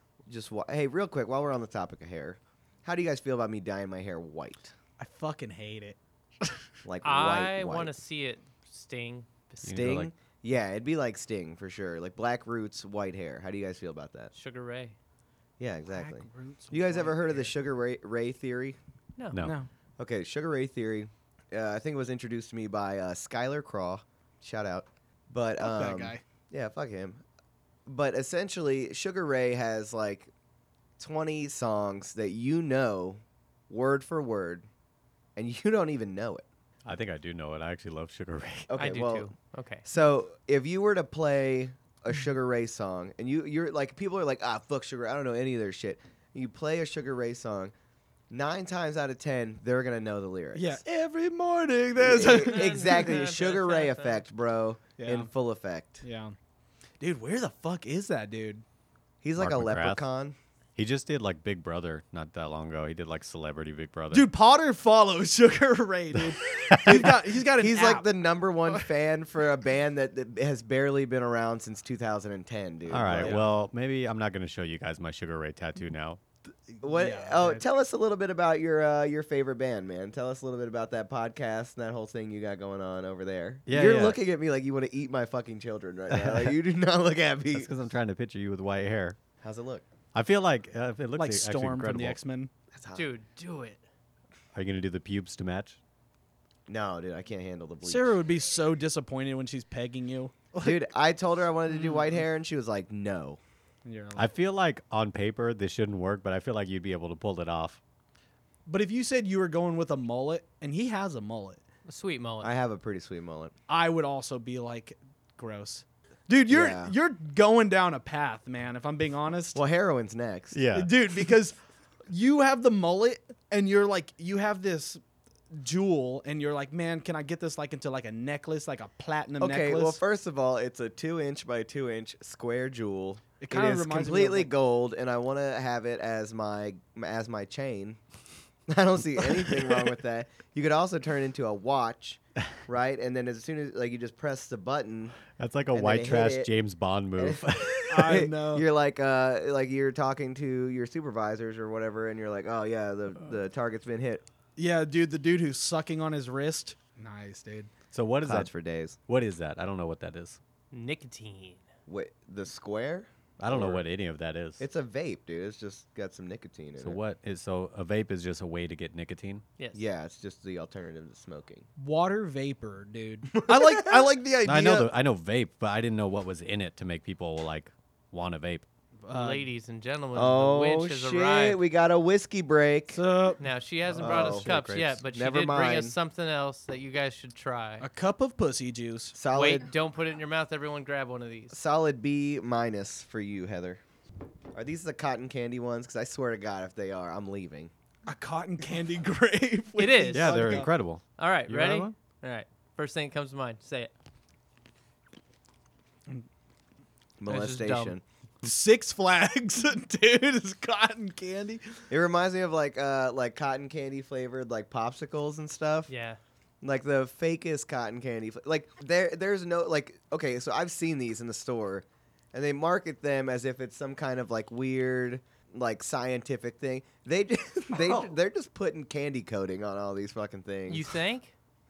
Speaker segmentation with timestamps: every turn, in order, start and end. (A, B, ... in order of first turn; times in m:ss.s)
0:00.3-0:04.7 A
0:05.0-0:06.5 B
0:06.8-0:07.9 A
0:07.0-0:09.8 C
0:09.6-0:10.1 D
0:09.6-0:14.3 A
0:14.3-0:15.0 C
0:15.6-0:18.8 A
0:15.9-0:17.5 B
0:19.3-0:19.6 D
0:19.4-0:19.7 B
0:20.0-0:27.2 A
0:25.6-0:26.2 B
0:27.9-0:30.3 A
0:31.0-0:34.7 A
0:35.4-0:36.4 A
0:36.8-0:38.7 D
0:38.7-0:39.3 A
0:38.8-0:39.8 C
0:39.8-0:47.7 A
0:48.3-0:50.8 A
0:50.5-0:53.1 B
0:52.0-0:56.0 A
0:52.2-0:54.2 C
0:55.0-0:55.3 B
0:56.0-0:56.4 B
0:57.0-0:58.6 B
0:59.2-1:00.4 A
0:59.4-1:00.0 D
1:00.8-1:04.3 D
1:04.1-1:08.1 B
1:06.7-1:07.0 D
1:06.9-1:13.4 A
1:12.9-1:16.2 D
1:13.1-1:13.5 B
1:16.8-1:27.7 A
1:16.9-1:17.6 B
1:23.7-1:24.2 D
1:26.1-1:26.5 D
1:27.5-1:29.2 D
1:29.4-1:29.8 A
1:30.1-1:32.2 D
1:31.2-1:32.5 B
1:32.7-1:33.1 A
1:32.9-1:33.8 C
1:34.5-1:35.8 D
1:36.7-1:38.2 A
1:37.8-1:40.8 B
1:40.6-1:43.4 A
1:41.7-1:42.2 B
1:43.8-1:44.3 B
1:44.2-1:47.8 D
1:48.7-1:51.6 B
1:51.9-1:52.5 C
1:52.4-1:53.5 A
1:53.7-1:59.6 B
1:56.5-1:57.0 A
1:59.5-2:00.6 A
2:00.5-2:00.9 D
2:00.7-2:01.6 B
2:02.1-2:05.0 B
2:05.5-2:10.0 B
2:09.4-2:18.0 A
2:13.4-2:14.5 B
2:18.7-2:25.2 A
2:25.4-2:28.2 D
2:25.7-2:26.5 A
2:27.2-2:34.2 A
2:27.9-2:28.7 B
2:34.6-2:37.7 B
2:37.9-2:38.5 D
2:38.2-2:39.0 A
2:39.1-2:40.4 D
2:40.7-2:41.6 C
2:41.9-2:43.8 A
2:43.4-2:44.6 D
2:44.6-2:47.0 A
2:46.8-2:49.4 D
2:49.7-2:51.7 A
2:51.8-2:54.9 B
2:53.4-2:54.0 A
2:54.4-2:58.6 D
2:59.0-2:59.5 B
2:59.1-3:01.6 C
3:00.1-3:03.0 A
3:02.9-3:03.4 B
3:03.4-3:07.9 C
3:04.0-3:04.5 A
3:04.0-3:05.0 D
3:05.1-3:06.0 A
3:07.8-3:09.2 B
3:09.1-3:09.7 A
3:09.3-3:11.6 C
3:11.5-3:13.8 A
3:14.5-3:17.7 A
3:18.1-3:20.7 B
3:19.8-3:23.9 C
3:20.1-3:21.9 D
3:27.2-3:28.0 A
3:27.3-3:28.0 C
3:28.4-3:31.7 B
3:31.9-3:35.9 A
3:35.9-3:36.2 C
3:36.6-3:50.9 A
3:47.8-3:48.1 B
3:50.7-3:51.3 C